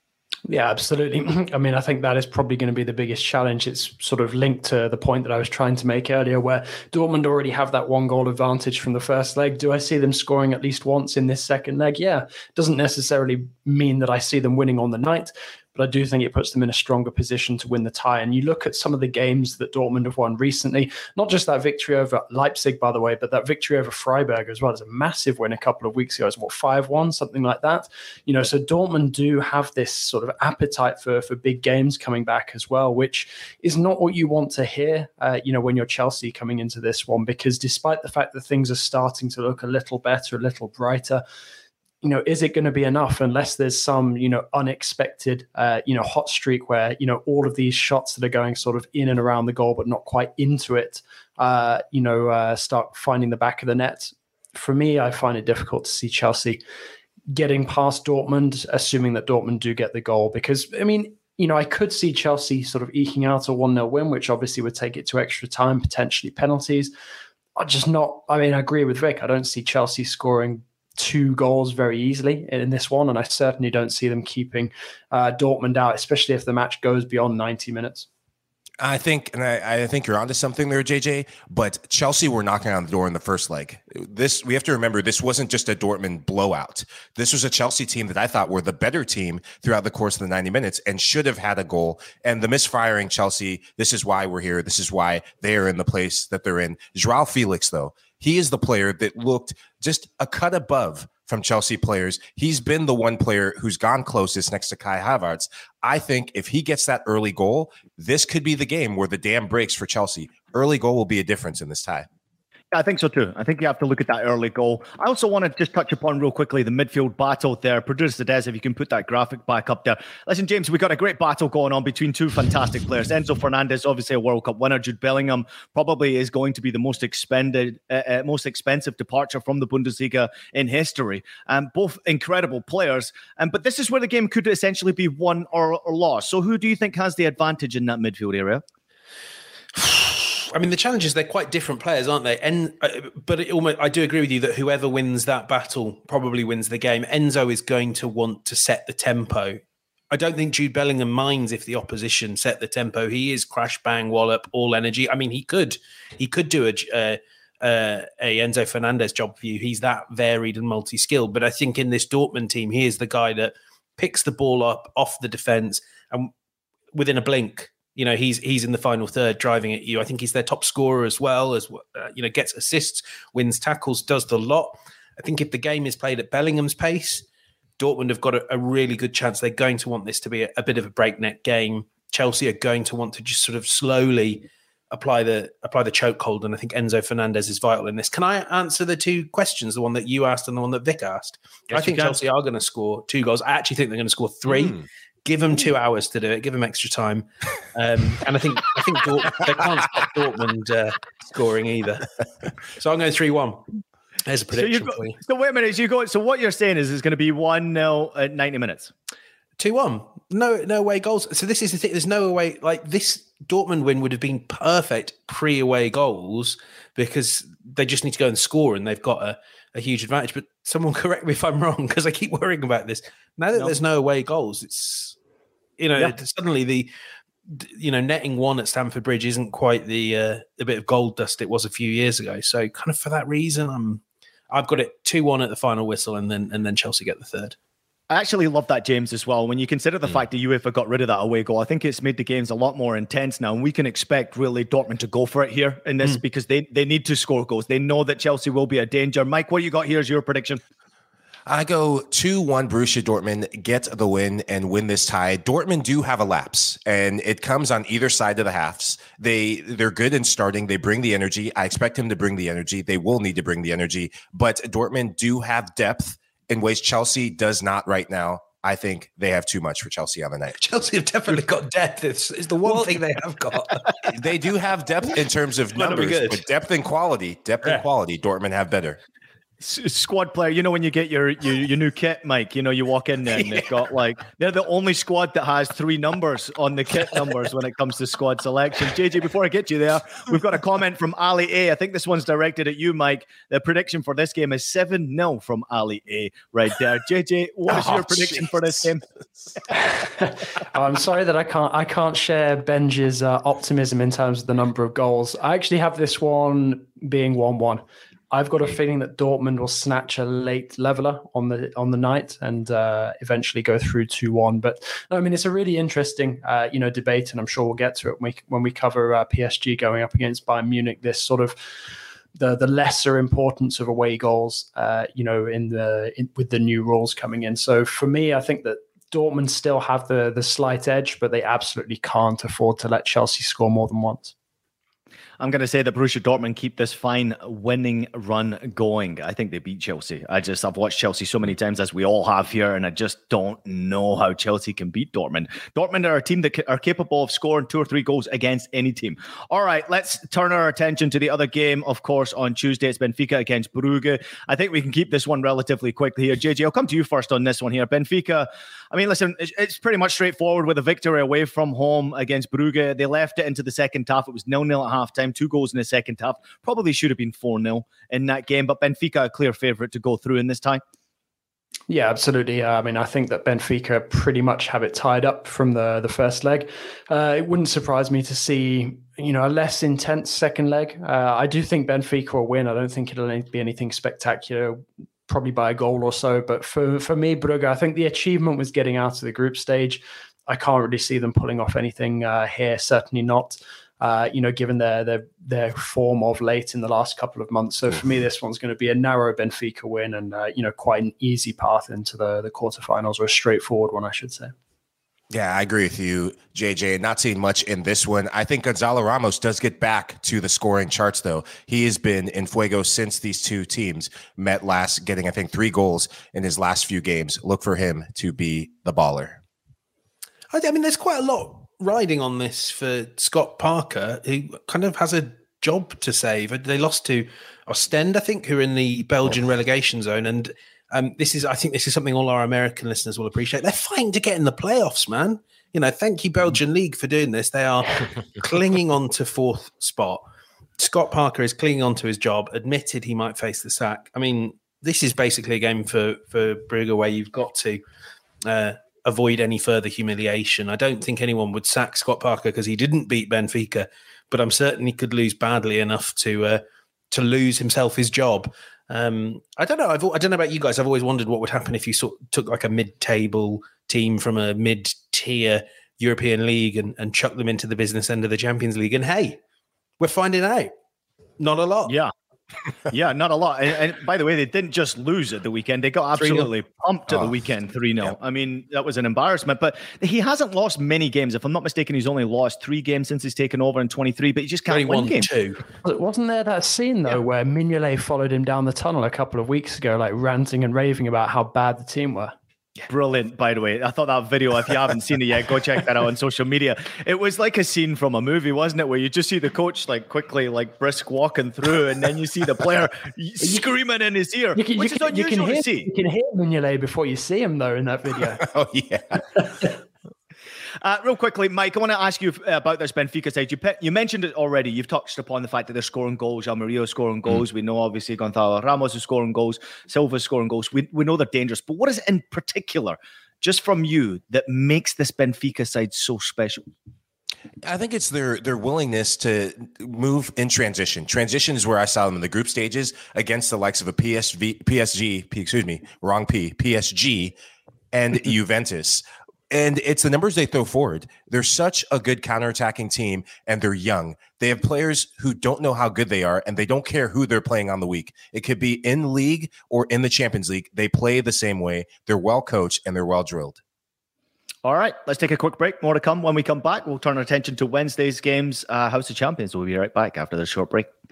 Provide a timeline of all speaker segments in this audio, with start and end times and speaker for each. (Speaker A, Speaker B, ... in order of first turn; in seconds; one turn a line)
Speaker A: 0.5-41.2
Speaker A: 42.0-56.6
Speaker A: 57.3-66.9
Speaker A: 67.6-78.1
Speaker B: 78.8-112.1
Speaker C: 112.7-138.6
Speaker D: 139.8-166.3
Speaker D: 166.9-177.2
Speaker D: 177.8-202.1
Speaker D: 202.8-203.6
Speaker D: 204.2-205.2
Speaker C: 204.5-208.9
Speaker D: 209.6-225.2
Speaker D: 225.8-226.9
Speaker D: 227.5-237.6
Speaker C: 238.1-250.6
Speaker B: 251.5-270.6
Speaker D: 270.6-273.9
Speaker B: 272.6-273.0
Speaker B: 274.1-279.0
Speaker D: 275.8-276.4
Speaker C: 279.6-299.0
Speaker D: 283.3-283.8
Speaker D: 297.7-298.8
Speaker A: 299.9-321.6
Speaker A: 322.4-334.3
Speaker C: 335.4-370.8
Speaker A: 371.9-404.5
Speaker B: 405.3-419.4
Speaker D: 420.5-440.2
Speaker D: 440.8-447.8
Speaker D: 448.4-469.4
Speaker D: 470.0-470.7
Speaker D: 471.4-471.9
Speaker C: 471.9-472.1
Speaker C: 472.9-485.3
Speaker D: 476.1-476.5
Speaker D: 484.7-485.6
Speaker A: 485.8-492.3
Speaker C: 492.9-505.9
Speaker A: 504.6-508.4
Speaker B: 508.4-509.4
Speaker C: 510.8-526.6
Speaker B: 527.6-537.3
Speaker B: 537.9-553.6
Speaker C: 554.6-560.9